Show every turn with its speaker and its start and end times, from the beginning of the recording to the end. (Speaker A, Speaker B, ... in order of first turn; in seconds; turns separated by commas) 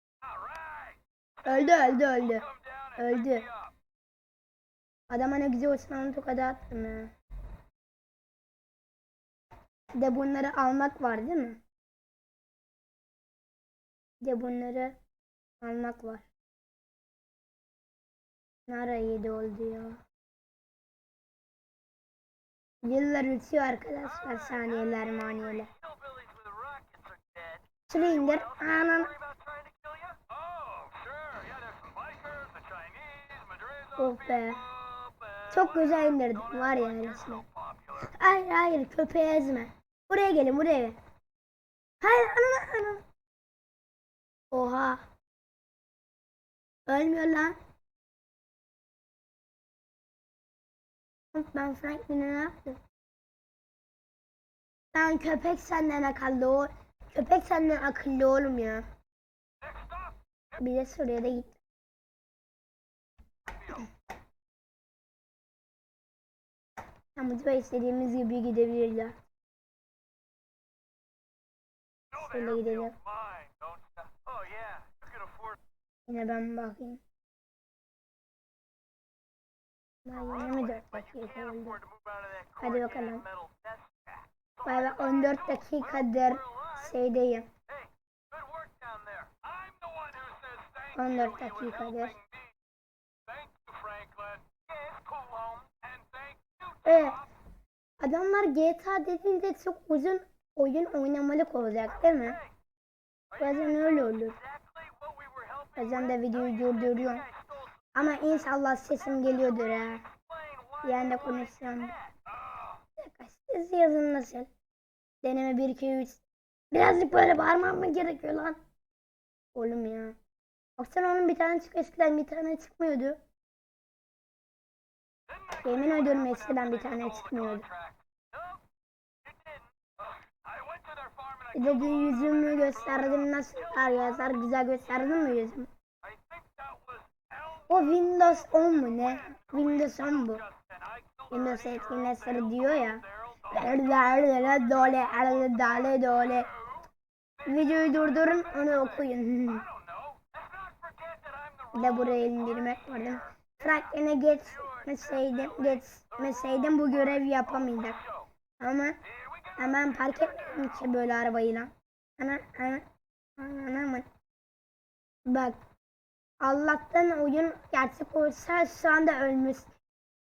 Speaker A: 0.2-3.7, Speaker B: 1.4-3.5, Speaker B: 5.1-7.1, Speaker B: 9.9-11.6, Speaker B: 14.2-15.0, Speaker B: 15.6-16.3, Speaker B: 18.7-20.0, Speaker B: 22.8-25.7, Speaker A: 25.6-38.1, Speaker B: 27.9-29.1, Speaker B: 34.0-34.6, Speaker B: 35.5-37.4, Speaker B: 38.0-41.0, Speaker B: 42.0-43.0, Speaker B: 44.5-45.1, Speaker B: 46.9-47.6, Speaker B: 51.3-52.8, Speaker B: 54.9-58.9, Speaker A: 59.6-60.6, Speaker B: 60.6-61.6, Speaker A: 63.5-63.9, Speaker B: 67.2-69.1, Speaker A: 72.1-75.6, Speaker B: 72.2-72.9, Speaker B: 76.1-77.0, Speaker B: 80.0-81.8, Speaker A: 80.1-86.9, Speaker B: 82.6-83.2, Speaker B: 84.6-87.5, Speaker A: 87.7-92.5, Speaker B: 90.9-92.2, Speaker A: 93.2-97.3, Speaker B: 96.8-97.2, Speaker B: 98.0-102.4, Speaker A: 102.0-102.4, Speaker A: 103.3-108.2, Speaker B: 103.4-104.4, Speaker B: 105.8-107.2, Speaker B: 107.9-110.0, Speaker A: 109.1-112.8, Speaker B: 110.8-111.9, Speaker B: 113.0-114.5, Speaker B: 115.2-118.6, Speaker B: 119.5-120.2, Speaker B: 120.8-123.2, Speaker A: 125.3-128.6, Speaker B: 125.6-127.7, Speaker A: 129.2-134.4, Speaker B: 131.5-135.7, Speaker A: 136.0-146.8, Speaker B: 137.7-140.4, Speaker B: 141.3-146.5, Speaker A: 147.4-153.8, Speaker B: 147.4-149.7, Speaker B: 151.7-158.0, Speaker A: 154.4-158.3, Speaker B: 158.6-159.0, Speaker A: 159.1-160.8, Speaker B: 159.6-162.8, Speaker B: 163.4-164.1, Speaker B: 165.2-165.6, Speaker B: 166.4-169.8